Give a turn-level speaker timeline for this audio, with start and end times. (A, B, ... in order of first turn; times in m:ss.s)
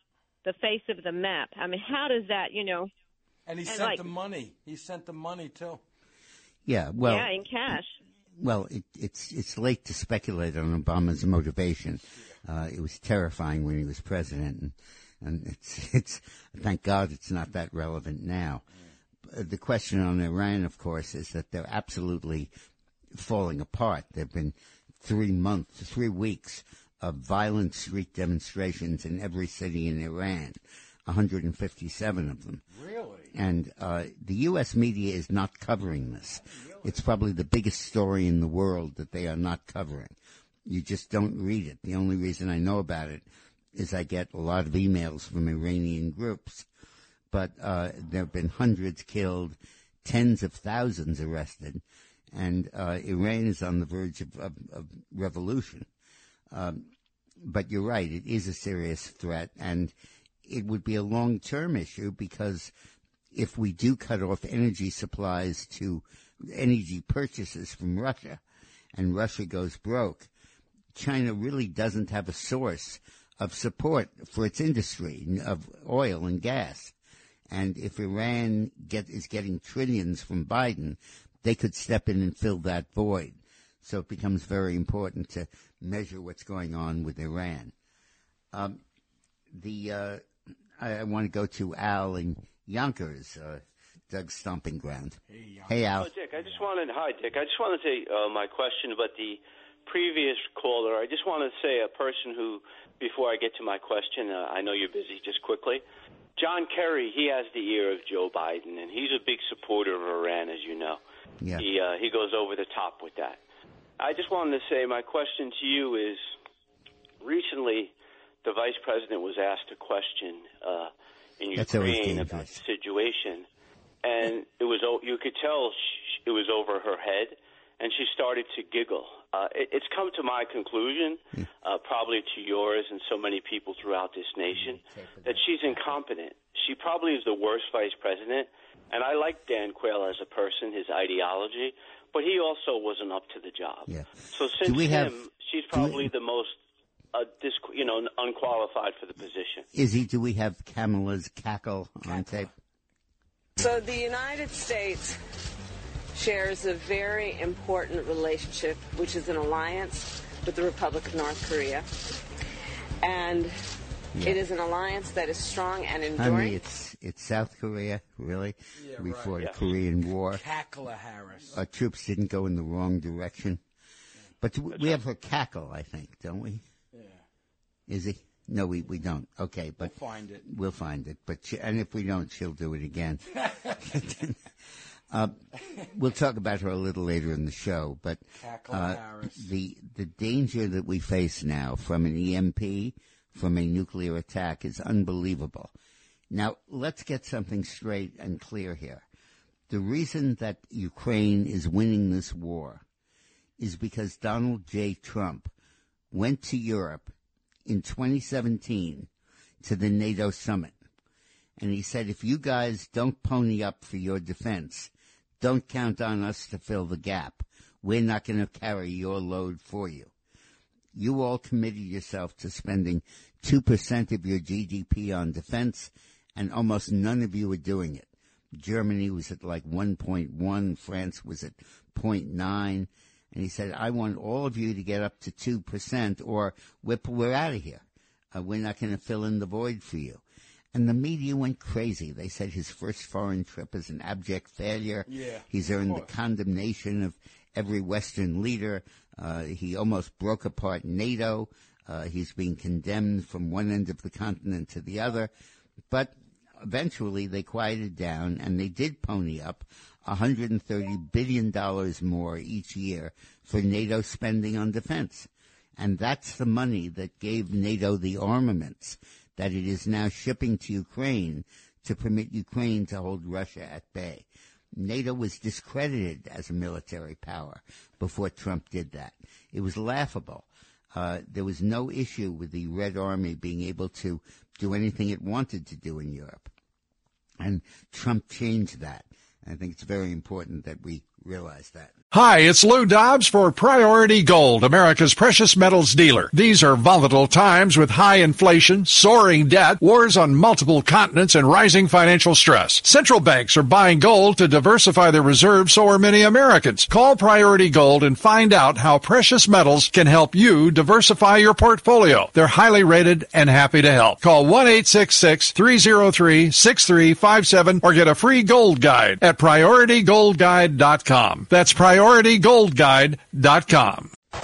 0:00.4-0:02.9 A
0:03.5-0:05.8 B
0:03.6-0:04.1 A
0:06.7-0:07.8 C
0:07.0-0:08.0 A
0:08.4-0:18.6 C
0:19.3-0:22.5 C
0:23.1-0:32.6 C
0:32.7-0:33.3 B
0:33.3-0:40.2 C
0:36.4-0:37.0 B
0:40.7-0:43.2 C
0:43.8-0:46.7 C
0:47.3-0:55.9 C
0:56.5-0:56.9 C
0:57.4-0:59.9 C
1:00.5-1:02.7 C
1:03.3-1:08.4 C
1:09.0-1:10.3 C
1:11.0-1:16.9 C
1:17.5-1:27.7 C
1:28.5-1:28.8 C
1:29.5-1:30.2 C
1:30.8-1:36.1 C
1:35.3-1:35.9 B
1:36.0-1:45.8 D
1:46.4-1:51.0 D
1:51.4-1:51.7 C
1:51.6-1:53.4 D
1:54.0-1:56.3 D
1:57.2-2:03.5 D
2:01.6-2:02.6 C
2:04.0-2:26.6 D
2:14.6-2:15.8 C
2:23.9-2:25.2 C
2:25.7-2:26.1 C
2:27.1-2:29.7 D
2:29.7-2:32.5 C
2:33.6-2:35.2 E
2:36.1-2:41.9 E
2:43.0-2:43.6 E
2:44.2-2:44.4 C
2:44.2-2:46.6 E
2:46.2-2:50.4 C
2:48.8-2:49.4 B
2:50.3-2:51.6 B
2:51.5-2:53.6 C
2:54.4-2:56.6 C
2:56.9-2:57.2 B
2:57.9-2:59.9 C
2:59.8-3:00.5 B
3:00.4-3:04.4 C
3:03.4-3:03.8 B
3:05.1-3:15.7 C
3:08.4-3:09.5 B
3:16.3-3:19.0 C
3:19.7-3:22.8 C
3:23.6-3:25.5 C
3:26.1-3:27.1 C
3:27.7-3:29.1 C
3:29.6-3:30.8 C
3:31.6-3:40.1 C
3:41.0-4:00.2 C
4:00.7-4:15.3 C
4:05.1-4:06.1 B
4:15.9-4:46.5 C
4:47.4-4:51.9 C
4:52.1-5:24.1 F